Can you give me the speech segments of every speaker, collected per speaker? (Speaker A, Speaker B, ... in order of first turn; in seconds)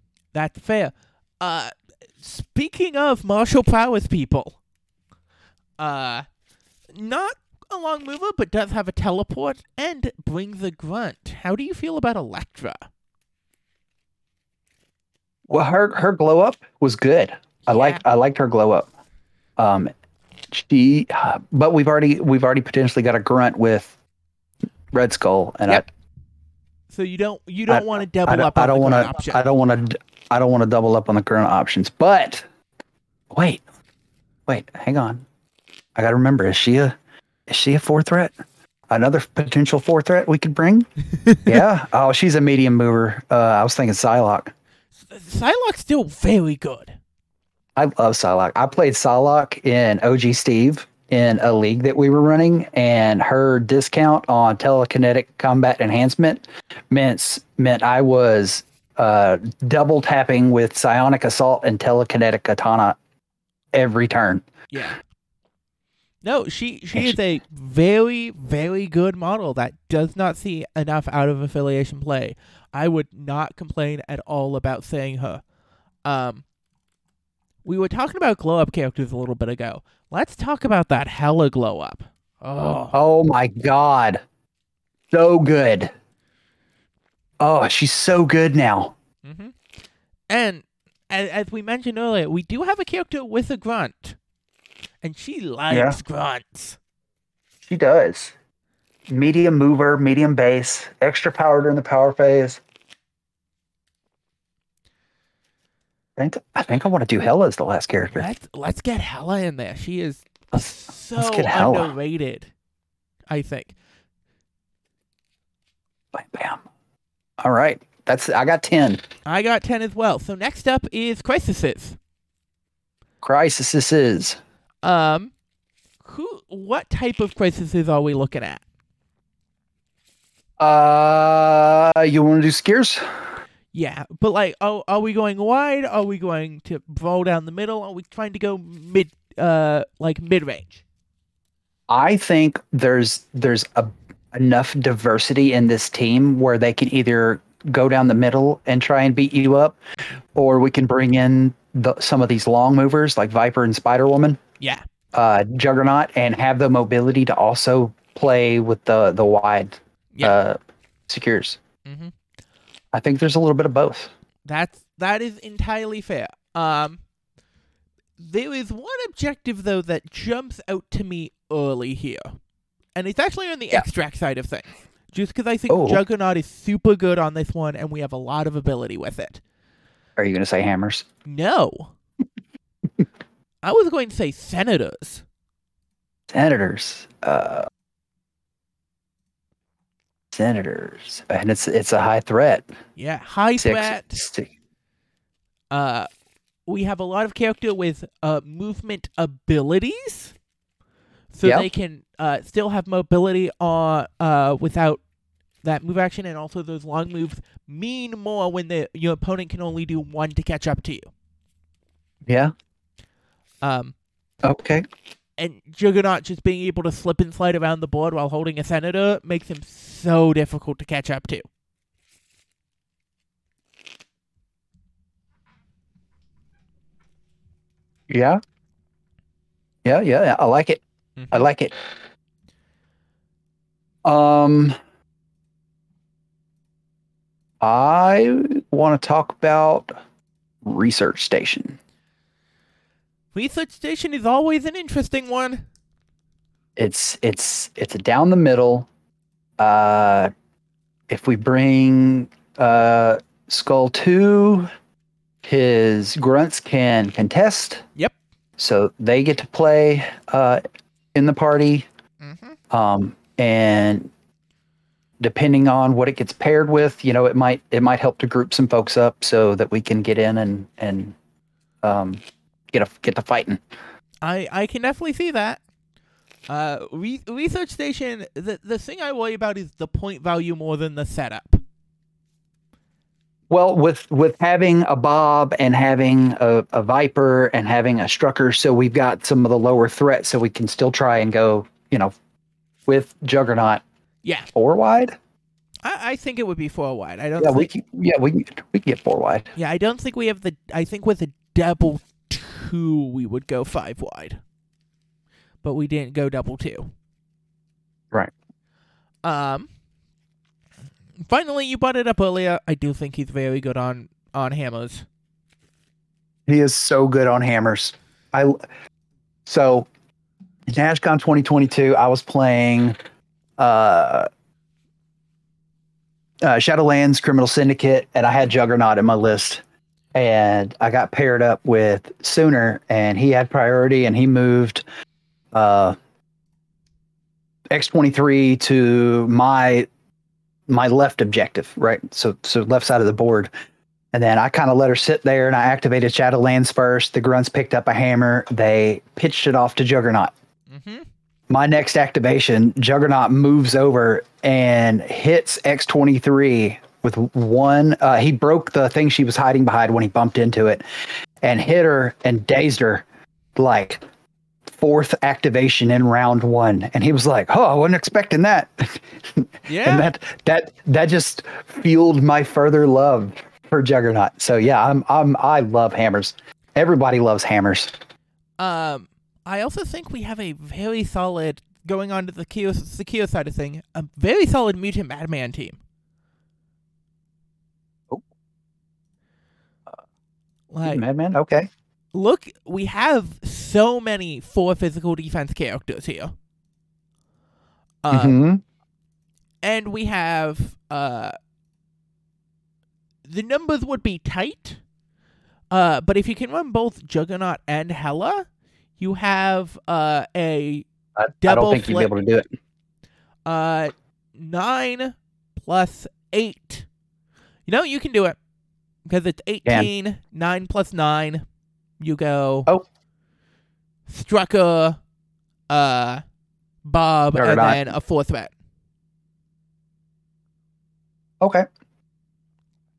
Speaker A: 0.3-4.6, 5.8-6.2, 6.9-12.9, 17.7-18.0, 26.9-29.4, 41.2-41.5, 44.9-47.0, 64.7-65.0, 66.2-75.4, 76.0-76.4, 77.6-83.0, 89.2-89.5, 90.3-94.2, 95.0-96.8, 108.1-112.5, 113.3-113.7, 119.2-122.0, 124.8-125.3, 126.0-128.6, 133.7-140.8, 161.8-162.1, 164.4-167.0, 168.2-172.4, 172.9-179.4, 181.2-181.9, 183.6-185.2, 192.9-194.2, 195.7-196.1, 196.7-200.3, 201.3-205.0, 205.6-211.1, 213.6-213.9, 215.4-221.5, 231.2-231.4, 243.3-245.6, 262.2-262.6, 274.2-275.6, 276.5-281.6, 294.2-294.5, 295.8-297.7, 299.5-304.4, 305.6-306.9, 309.2-309.7, 311.2-315.1, 350.7-351.1, 369.7-370.1, 378.6-385.8, 390.7-391.0, 392.1-396.3, 398.0-398.4, 399.6-401.4, 403.2-404.8, 405.7-408.4, 409.0-410.8, 411.4-412.1, 413.4-416.9, 417.7-418.4, 419.1-421.4, 422.0-422.7, 424.1-425.0, 425.7-426.2, 426.8-428.5
Speaker B: 15.5-18.9, 19.6-19.9, 20.5-23.9, 24.9-25.9, 27.7-32.5, 33.3-33.6, 34.5-35.2, 36.0-37.0, 37.5-38.3, 38.9-40.9, 41.4-44.5, 47.8-63.0, 63.7-64.5, 82.9-84.2, 85.1-85.9, 87.4-88.9, 95.7-96.0, 97.6-98.3, 99.1-102.6, 106.2-108.3, 111.2-111.9, 116.1-116.6, 117.4-119.0, 123.2-124.4, 130.6-133.0, 141.9-149.8, 150.3-154.4, 155.1-161.6, 162.9-164.1, 175.7-176.0, 180.2-181.0, 186.3-187.7, 190.3-192.7, 193.6-194.5, 212.3-212.5, 214.4-214.8, 228.1-228.4, 229.8-231.7, 234.0-234.7, 237.6-239.9, 240.6-241.8, 246.8-248.9, 249.6-250.3, 251.1-254.7, 255.4-257.8, 258.6-260.6, 261.1-261.9, 262.7-264.1, 265.2-271.1, 271.8-273.6, 283.5-292.1, 292.9-293.8, 294.5-295.1, 297.4-299.5, 316.5-318.6, 319.4-319.9, 320.7-322.9, 323.6-324.3, 326.4-329.6, 330.1-334.8, 335.5-335.9, 337.7-339.9, 340.7-343.5, 344.1-350.3, 351.5-360.8, 361.4-363.0, 363.6-364.0, 364.6-377.9, 390.8-391.7, 398.1-398.6, 411.2-412.5, 427.4-427.9, 431.4-431.6